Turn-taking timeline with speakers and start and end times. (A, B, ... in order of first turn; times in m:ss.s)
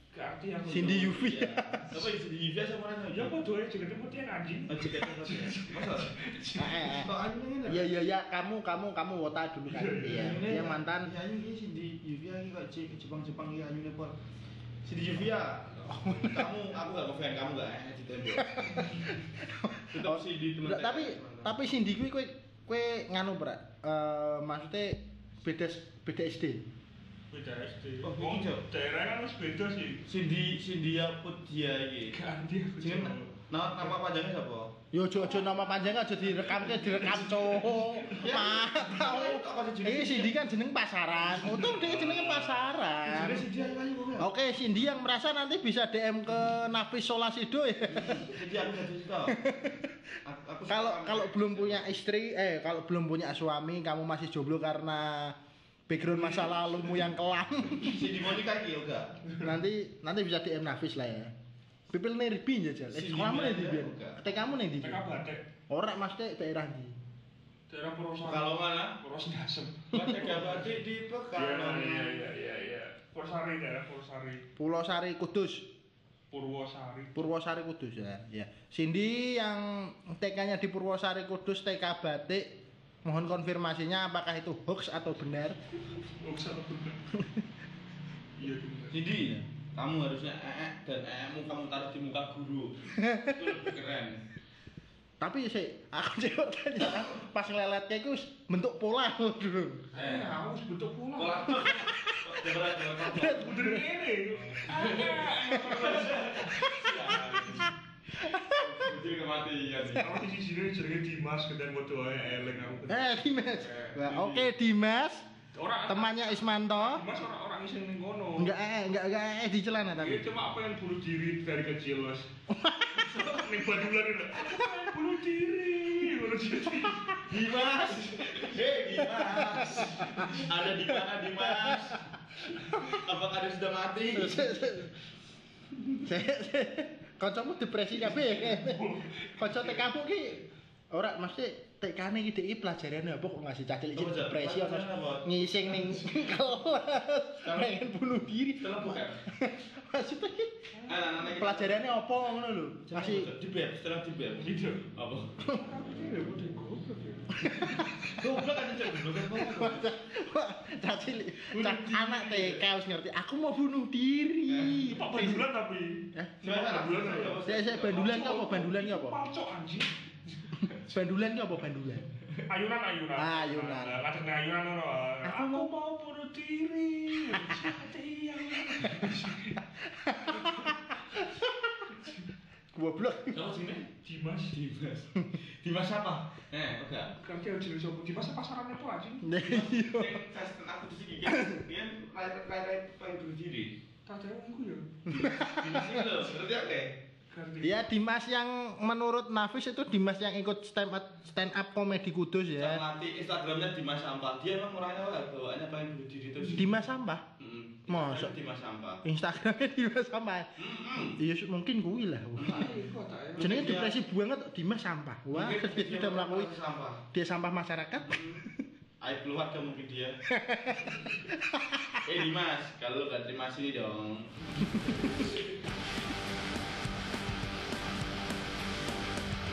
0:00.1-0:01.3 A
0:00.6-0:02.1 B
0:00.8-0:03.3 C
0:03.1-0:07.0 A
0:04.7-0:06.2 C
0:06.6-0:07.1 B
0:06.7-0:07.9 C
0:07.6-0:11.1 B
0:09.7-0:10.4 A
0:10.1-0:14.1 C
0:14.8-0:18.9 C
0:15.9-0:16.5 B
0:18.3-0:26.6 B
0:19.9-0:21.5 C
0:27.3-0:30.0 A
0:28.0-0:28.6 C
0:30.0-0:32.2 C
0:32.1-0:33.4 A
0:32.8-0:34.7 C
0:34.9-0:43.5 B
0:35.3-0:38.2 A
0:38.1-0:40.3 C
0:41.3-0:42.7 A
0:43.0-0:44.3 C
0:44.2-0:48.4 B
0:47.9-0:49.4 C
0:49.2-0:50.0 B
0:50.2-0:51.8 C
0:50.7-0:55.4 B
0:55.9-0:58.2 B
0:56.1-0:57.0 A
0:57.7-0:59.2 C
0:59.4-1:01.3 B
1:01.9-1:05.0 B
1:02.9-1:04.2 C
1:04.8-1:05.4 A
1:05.7-1:07.0 B
1:07.7-1:10.8 A
1:08.2-1:09.0 C
1:09.9-1:12.2 C
1:11.3-1:14.4 A
1:14.6-1:15.7 B
1:16.3-1:17.2 A
1:17.1-1:22.5 B
1:23.0-1:25.6 B
1:26.2-1:27.0 A
1:27.1-1:27.4 B
1:28.4-1:29.0 A
1:28.9-1:34.2 C
1:33.0-1:33.6 B
1:35.2-1:39.9 B
1:39.9-1:40.3 C
1:39.9-1:41.6 A
1:41.2-1:43.5 C
1:41.4-1:43.9 B
1:43.2-1:46.6 A
1:44.6-1:47.7 C
1:45.4-1:45.8 B
1:46.5-1:47.4 B
1:48.1-1:48.9 B
1:48.5-1:50.1 C
1:49.8-1:50.1 B
1:50.0-1:53.1 A
1:52.9-1:55.2 B
1:53.6-1:54.5 C
1:55.5-1:58.5 A
1:55.9-1:57.0 B
1:58.4-2:00.3 B
1:59.9-2:02.3 A
2:02.5-2:03.4 B
2:03.0-2:07.2 A
2:07.2-2:12.1 C
2:09.0-2:12.0 B
2:12.6-2:14.6 C
2:14.1-2:14.9 B
2:16.0-2:30.7 B
2:18.0-2:19.8 A
2:24.0-2:25.7 C
2:27.4-2:27.8 C
2:28.6-2:29.2 C
2:30.8-2:31.0 A
2:30.8-2:32.0 C
2:31.2-2:33.3 B
2:32.9-2:35.3 C
2:34.4-2:34.8 A
2:35.5-2:37.3 A
2:37.3-2:38.4 B
2:37.4-2:39.9 C
2:39.0-2:45.5 B
2:41.5-2:42.6 C
2:44.5-2:44.9 C
2:44.8-2:50.6 A
2:46.1-2:46.4 B
2:46.4-2:48.4 C
2:47.4-2:49.2 B
2:50.7-2:52.1 B
2:52.5-2:59.6 A
2:53.2-2:54.0 B
2:55.2-2:55.7 B
2:58.7-2:59.0 B
2:59.8-3:01.9 B
3:00.3-3:00.7 A
3:02.0-3:02.2 A
3:02.7-3:03.4 B
3:03.3-3:03.9 C
3:04.0-3:04.6 A
3:04.5-3:07.1 C
3:07.2-3:09.3 A
3:09.2-3:10.2 B
3:09.4-3:13.7 C
3:11.2-3:11.6 B
3:14.0-3:14.9 A
3:15.0-3:16.2 B
3:15.1-3:17.0 C
3:17.3-3:17.8 A
3:17.6-3:22.8 B
3:22.6-3:26.7 C
3:26.6-3:27.3 B
3:27.4-3:29.0 C
3:27.9-3:28.3 B
3:29.0-3:30.5 B
3:30.6-3:31.2 C
3:31.2-3:32.7 B
3:32.4-3:32.7 C
3:32.4-3:33.7 A
3:33.4-3:34.0 C
3:33.4-3:36.5 B
3:35.3-3:37.0 C
3:37.1-3:38.6 B
3:38.1-3:38.4 C
3:39.0-3:40.2 C
3:40.3-3:42.0 B
3:42.0-3:45.4 C
3:44.8-3:45.3 B